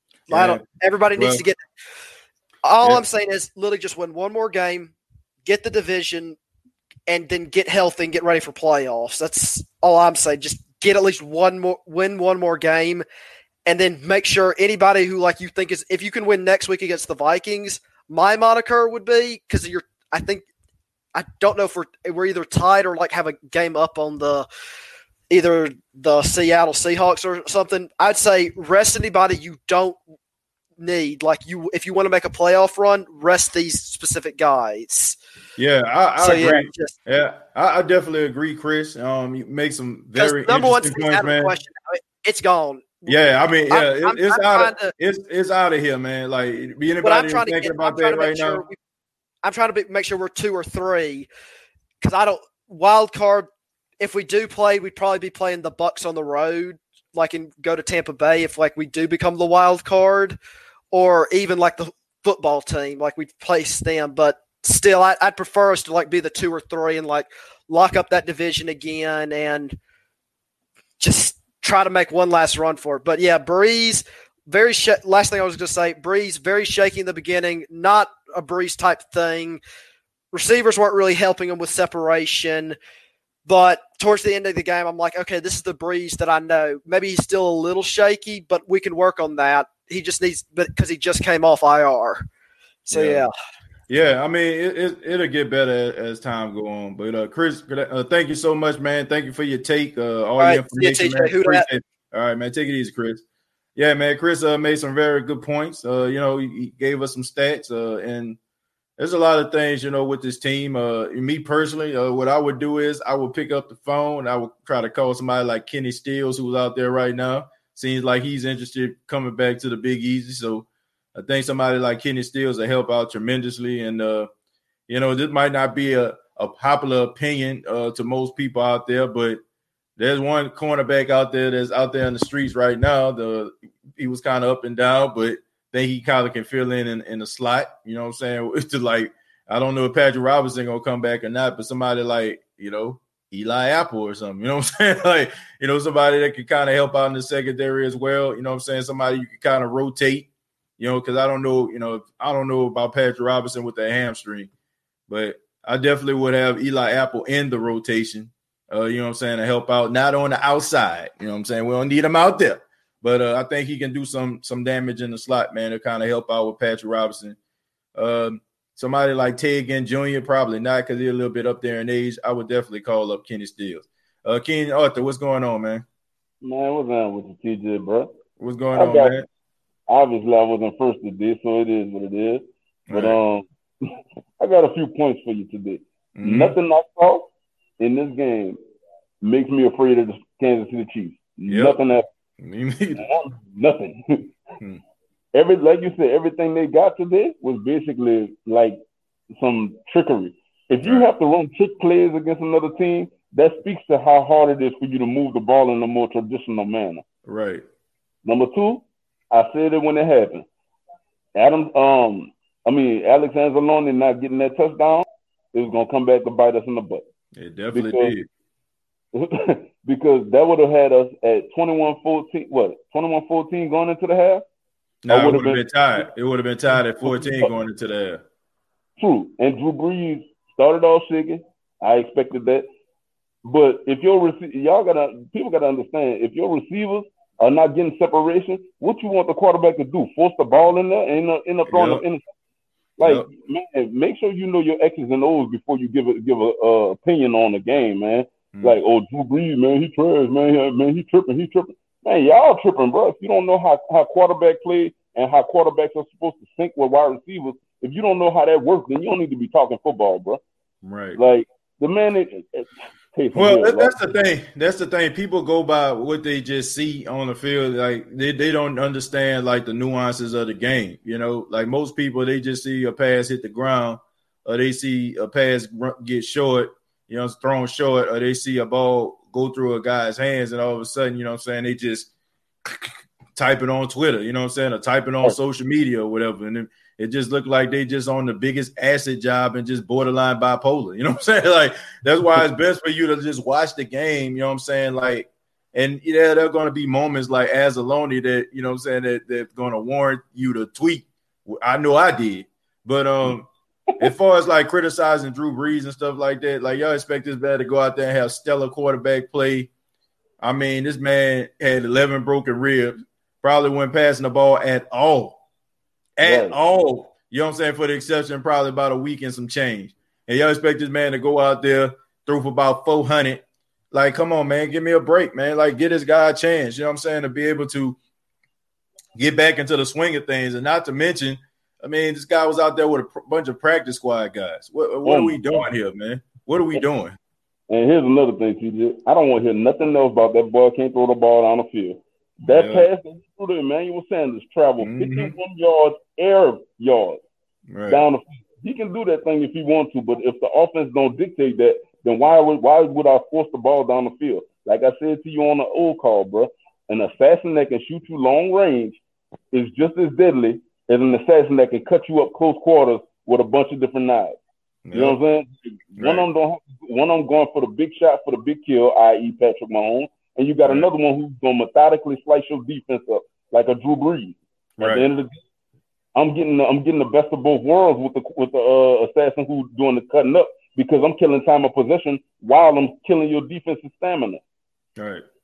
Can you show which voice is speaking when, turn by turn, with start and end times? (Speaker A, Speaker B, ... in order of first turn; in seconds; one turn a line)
Speaker A: 0.3-0.6
Speaker B: 0.3-1.6
Speaker A: 1.1-1.4
Speaker B: 2.6-4.9
Speaker B: 5.4-6.4
Speaker B: 7.1-13.0
Speaker B: 13.7-20.4
Speaker B: 21.1-24.4
Speaker B: 25.3-30.0
Speaker B: 30.8-35.1
Speaker A: 35.6-41.5
Speaker B: 36.2-36.9
Speaker B: 40.1-43.2
Speaker A: 43.1-48.6
Speaker B: 43.7-44.9
Speaker B: 47.0-48.8
Speaker B: 49.4-51.3
Speaker B: 52.0-53.5
Speaker B: 54.0-60.4
Speaker B: 60.9-69.7
Speaker B: 71.0-79.6
Speaker B: 80.3-82.8
Speaker B: 83.5-92.2
Speaker B: 92.8-93.3
Speaker A: 92.9-93.2
Speaker A: 93.9-103.2
Speaker B: 100.4-101.6
Speaker A: 103.8-108.4
Speaker A: 109.0-124.3
Speaker A: 124.9-129.4
Speaker A: 130.0-154.5
Speaker A: 155.1-167.3
Speaker A: 167.9-175.8
Speaker C: 176.4-178.1
Speaker A: 178.4-179.2
Speaker C: 178.7-179.1
Speaker C: 179.9-183.4
Speaker A: 182.9-183.2
Speaker C: 184.4-187.3
Speaker A: 186.2-186.5
Speaker C: 187.8-188.6
Speaker C: 189.2-192.1
Speaker A: 191.5-191.8
Speaker A: 192.4-193.0
Speaker C: 193.0-194.3
Speaker C: 195.3-198.8
Speaker C: 199.3-207.0
Speaker A: 207.2-207.6
Speaker C: 208.2-210.4
Speaker C: 211.3-217.0
Speaker A: 217.3-218.3
Speaker C: 217.7-218.1
Speaker C: 219.1-224.4
Speaker A: 225.0-228.2
Speaker C: 225.1-225.6
Speaker C: 227.0-227.5
Speaker C: 229.0-232.7
Speaker C: 233.4-242.2
Speaker A: 241.7-242.0
Speaker C: 243.0-260.4
Speaker A: 243.0-243.3
Speaker A: 260.8-261.2
Speaker C: 261.1-263.9
Speaker A: 263.3-282.1
Speaker A: 282.7-303.4
Speaker A: 304.0-309.7
Speaker A: 310.4-315.4
Speaker A: 316.2-328.0
Speaker C: 316.2-316.6
Speaker A: 329.1-337.2
Speaker C: 335.0-335.6
Speaker C: 337.7-347.2
Speaker A: 342.5-342.9
Speaker A: 344.8-345.4
Speaker A: 347.7-348.1
Speaker C: 347.9-359.0
Speaker C: 359.5-364.4
Speaker A: 364.9-365.2
Speaker C: 364.9-375.4
Speaker A: 366.0-366.2
Speaker A: 374.8-375.0
Speaker C: 376.1-384.4
Speaker A: 385.0-385.2